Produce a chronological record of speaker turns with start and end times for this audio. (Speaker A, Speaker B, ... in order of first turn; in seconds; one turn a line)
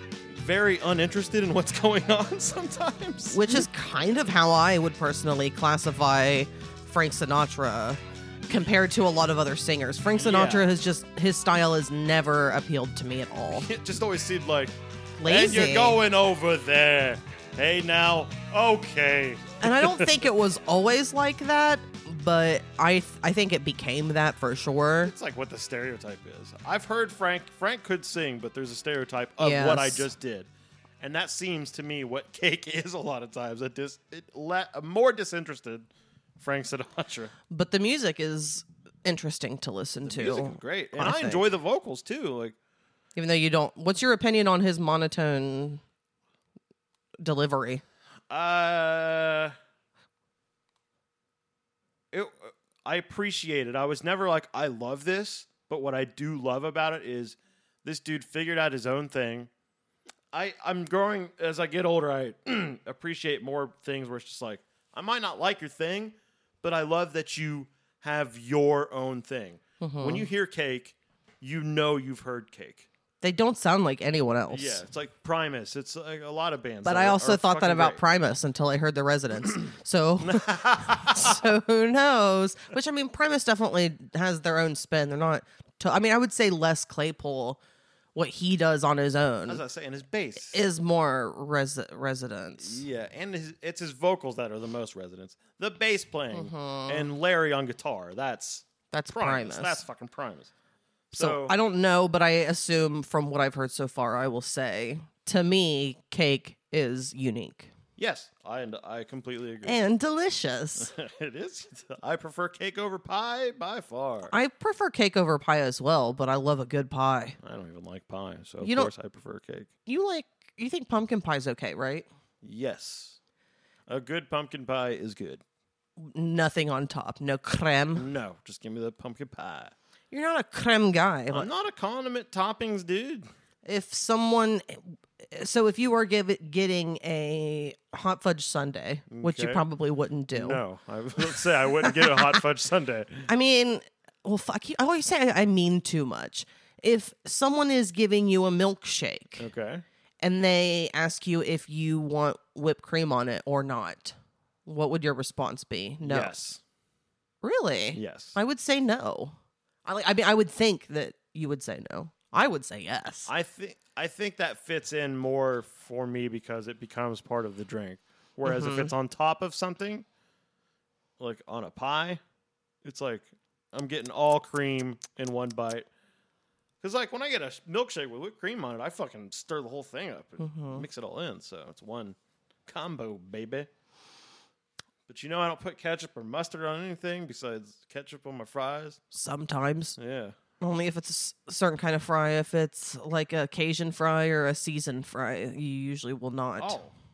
Speaker A: 0.3-3.6
Speaker B: 3.3-13.7
Speaker A: 10.2-10.7
Speaker A: 13.5-20.1
Speaker B: 15.2-16.0
Speaker B: 19.6-25.1
Speaker A: 25.0-30.5
Speaker B: 29.4-30.1
Speaker A: 31.0-35.9
Speaker A: 36.4-37.3
Speaker B: 37.5-41.5
Speaker A: 40.0-42.5
Speaker B: 43.1-45.8
Speaker B: 47.2-47.8
Speaker A: 48.3-49.5
Speaker A: 52.1-59.5
Speaker A: 60.3-72.9
Speaker B: 69.8-70.3
Speaker B: 73.2-74.8
Speaker A: 74.5-78.0
Speaker B: 76.8-87.6
Speaker A: 80.2-81.4
Speaker B: 88.1-89.6
Speaker A: 89.5-90.6
Speaker B: 90.5-92.8
Speaker A: 92.6-100.5
Speaker B: 96.3-97.1
Speaker B: 98.9-99.8
Speaker A: 101.1-101.5
Speaker B: 101.1-107.7
Speaker A: 108.0-109.8
Speaker B: 109.6-110.9
Speaker A: 110.8-114.3
Speaker B: 114.3-117.4
Speaker A: 117.4-119.7
Speaker B: 118.6-118.9
Speaker B: 119.8-122.0
Speaker A: 122.4-123.2
Speaker A: 123.9-125.4
Speaker B: 126.0-128.1
Speaker A: 128.0-129.7
Speaker B: 130.1-131.5
Speaker A: 131.3-133.3
Speaker B: 133.6-140.6
Speaker A: 139.1-139.6
Speaker A: 140.3-143.3
Speaker B: 141.2-142.4
Speaker B: 143.3-149.4
Speaker A: 149.4-149.8
Speaker B: 150.2-156.3
Speaker A: 156.0-156.6
Speaker B: 157.4-163.3
Speaker A: 157.9-158.4
Speaker A: 163.3-170.0
Speaker B: 168.4-168.9
Speaker A: 171.2-172.2
Speaker A: 172.8-175.9
Speaker A: 176.8-183.7
Speaker B: 180.4-180.8
Speaker A: 185.1-189.0
Speaker B: 189.1-189.9
Speaker A: 189.9-190.3
Speaker B: 190.6-196.8
Speaker A: 196.6-196.9